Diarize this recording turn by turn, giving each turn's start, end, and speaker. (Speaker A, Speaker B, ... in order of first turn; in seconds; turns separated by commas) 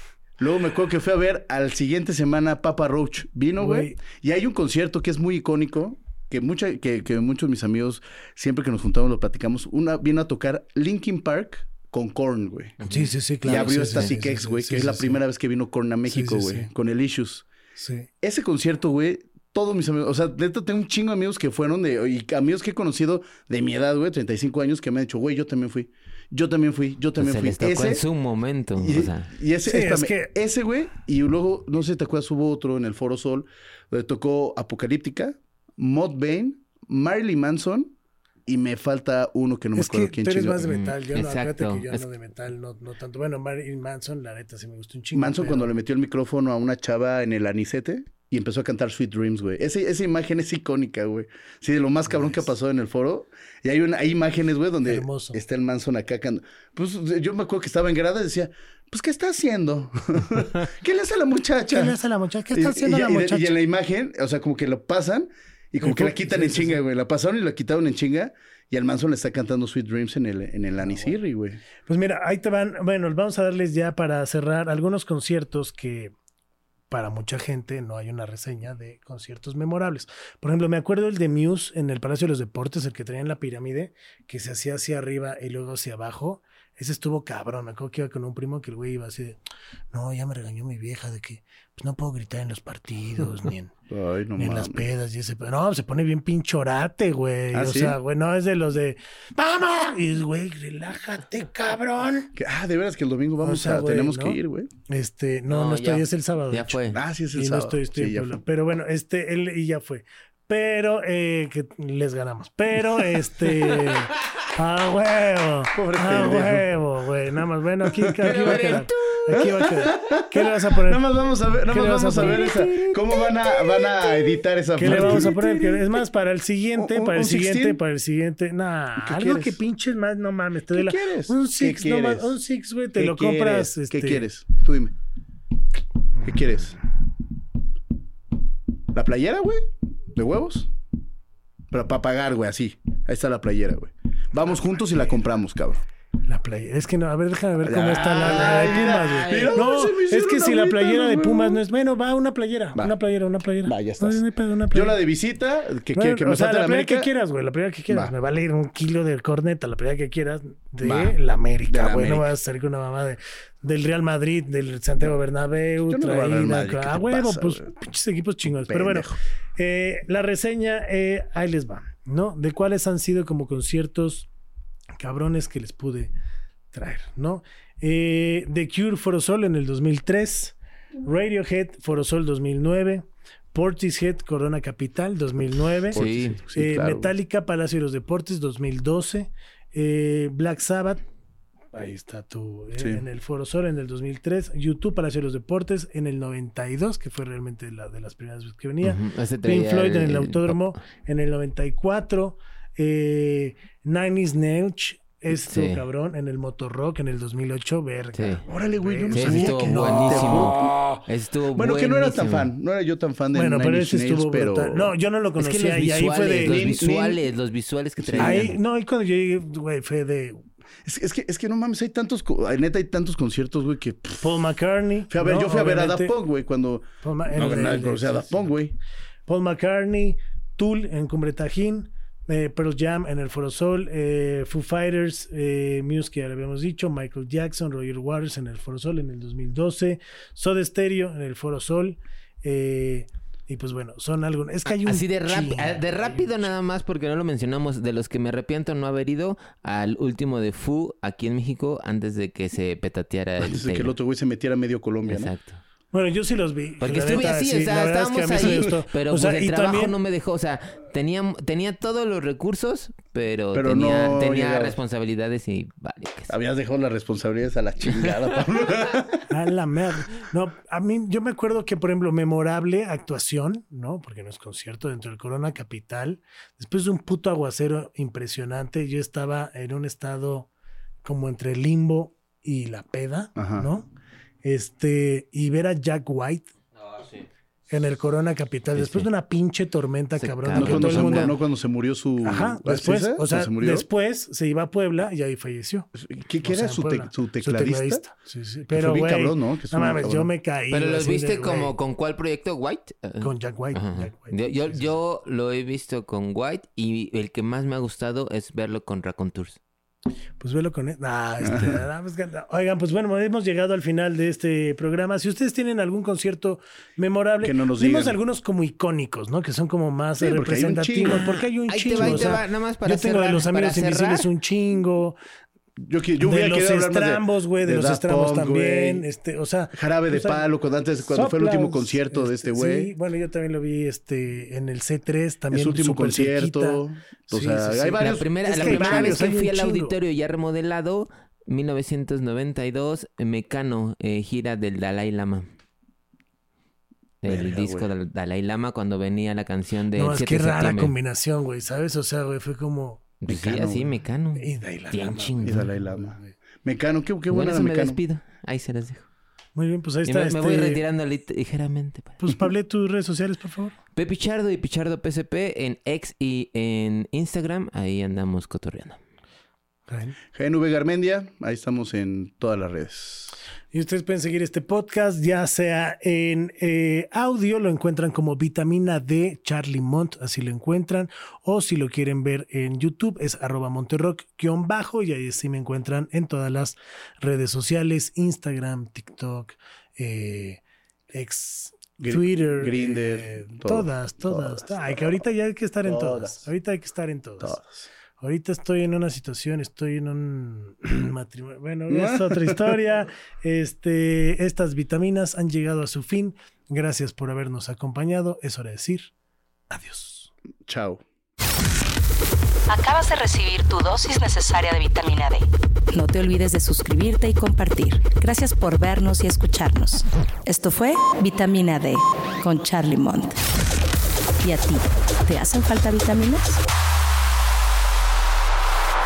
Speaker A: 0.4-12.8, Speaker B: 3.6-4.0, Speaker C: 12.8-14.1, Speaker B: 12.8-15.2, Speaker A: 13.4-17.4, Speaker B: 16.1-16.7, Speaker B: 17.8-18.1, Speaker A: 18.2-28.0, Speaker C: 27.2-29.3, Speaker A: 28.8-37.9, Speaker B: 29.6-30.3, Speaker A: 38.5-40.6, Speaker B: 39.7-45.7, Speaker C: 40.6-42.0, Speaker A: 45.1-61.9, Speaker B: 54.8-55.4, Speaker B: 61.7-63.5, Speaker A: 62.5-71.6, Speaker B: 65.8-66.8, Speaker B: 70.8-71.1, Speaker B: 71.8-76.1, Speaker B: 76.9-89.4, Speaker B: 89.9-93.7, Speaker A: 93.9-94.9, Speaker B: 94.3-102.3, Speaker A: 97.5-98.0, Speaker A: 102.3-104.7, Speaker B: 103.4-106.8, Speaker C: 105.5-107.0, Speaker A: 106.9-108.4, Speaker B: 107.3-121.0, Speaker A: 115.7-116.7, Speaker A: 117.8-126.0, Speaker C: 118.2-119.3, Speaker B: 121.7-122.5, Speaker C: 122.2-123.3, Speaker B: 124.8-134.3, Speaker A: 126.8-127.8, Speaker A: 129.0-129.6, Speaker A: 130.7-132.3, Speaker A: 132.9-134.9, Speaker A: 136.2-136.8, Speaker A: 138.9-140.7, Speaker A: 141.7-145.8, Speaker B: 146.3-155.0, Speaker A: 147.6-151.6, Speaker C: 148.1-149.6, Speaker A: 153.6-157.1, Speaker B: 155.9-174.3, Speaker A: 160.8-161.2, Speaker A: 161.7-162.3, Speaker A: 165.9-167.7, Speaker A: 168.7-169.2, Speaker B: 175.0-176.1, Speaker B: 176.7-191.0, Speaker A: 185.9-187.1, Speaker C: 185.9-186.4, Speaker B: 191.7-211.0, Speaker A: 192.8-193.0, Speaker C: 198.8-200.7, Speaker C: 205.3-205.8, Speaker C: 208.2-208.4, Speaker A: 208.5-210.8, Speaker C: 209.1-212.5, Speaker A: 211.5-214.9, Speaker B: 213.3-216.6, Speaker C: 215.4-218.6, Speaker A: 216.2-217.2, Speaker A: 218.0-218.5, Speaker B: 218.2-220.4, Speaker A: 220.8-224.3, Speaker B: 224.2-226.1, Speaker A: 225.1-228.7, Speaker B: 227.0-228.4, Speaker B: 229.3-246.4, Speaker C: 244.7-253.9, Speaker A: 253.4-255.3, Speaker C: 255.1-255.6, Speaker B: 255.9-259.9, Speaker C: 256.8-266.3, Speaker A: 263.5-264.8, Speaker A: 266.3-269.2, Speaker C: 267.9-268.1, Speaker B: 269.3-280.5, Speaker B: 281.0-283.9, Speaker A: 283.4-283.7, Speaker B: 284.4-286.5, Speaker B: 287.7-291.3, Speaker C: 288.8-289.1, Speaker C: 290.2-291.4, Speaker A: 290.5-293.9, Speaker B: 292.2-295.9, Speaker A: 295.9-298.1, Speaker B: 296.4-301.7, Speaker A: 298.7-300.3, Speaker C: 300.7-309.6, Speaker B: 303.2-305.0, Speaker B: 310.4-325.2, Speaker A: 311.4-311.8, Speaker A: 317.4-318.2, Speaker A: 320.2-321.3, Speaker C: 321.1-324.3, Speaker A: 321.9-322.4, Speaker A: 325.8-329.1, Speaker B: 326.2-330.4, Speaker A: 329.7-332.9, Speaker B: 331.1-339.9, Speaker A: 335.5-339.2, Speaker C: 338.0-345.5, Speaker C: 347.2-350.9, Speaker A: 347.3-347.9, Speaker B: 349.9-356.3, Speaker C: 353.2-355.7, Speaker A: 355.4-358.0, Speaker C: 357.3-359.1, Speaker B: 359.6-360.8, Speaker C: 360.1-362.2, Speaker B: 362.2-363.7, Speaker C: 363.9-369.0, Speaker B: 369.9-370.2, Speaker A: 370.3-373.4, Speaker B: 373.7-397.6, Speaker A: 392.0-395.0, Speaker A: 395.8-396.5, Speaker A: 397.4-397.9, Speaker B: 398.2-409.1, Speaker A: 401.9-402.8, Speaker B: 409.7-410.3, Speaker A: 410.6-411.0, Speaker D: 412.7-423.4, Speaker D: 424.4-426.6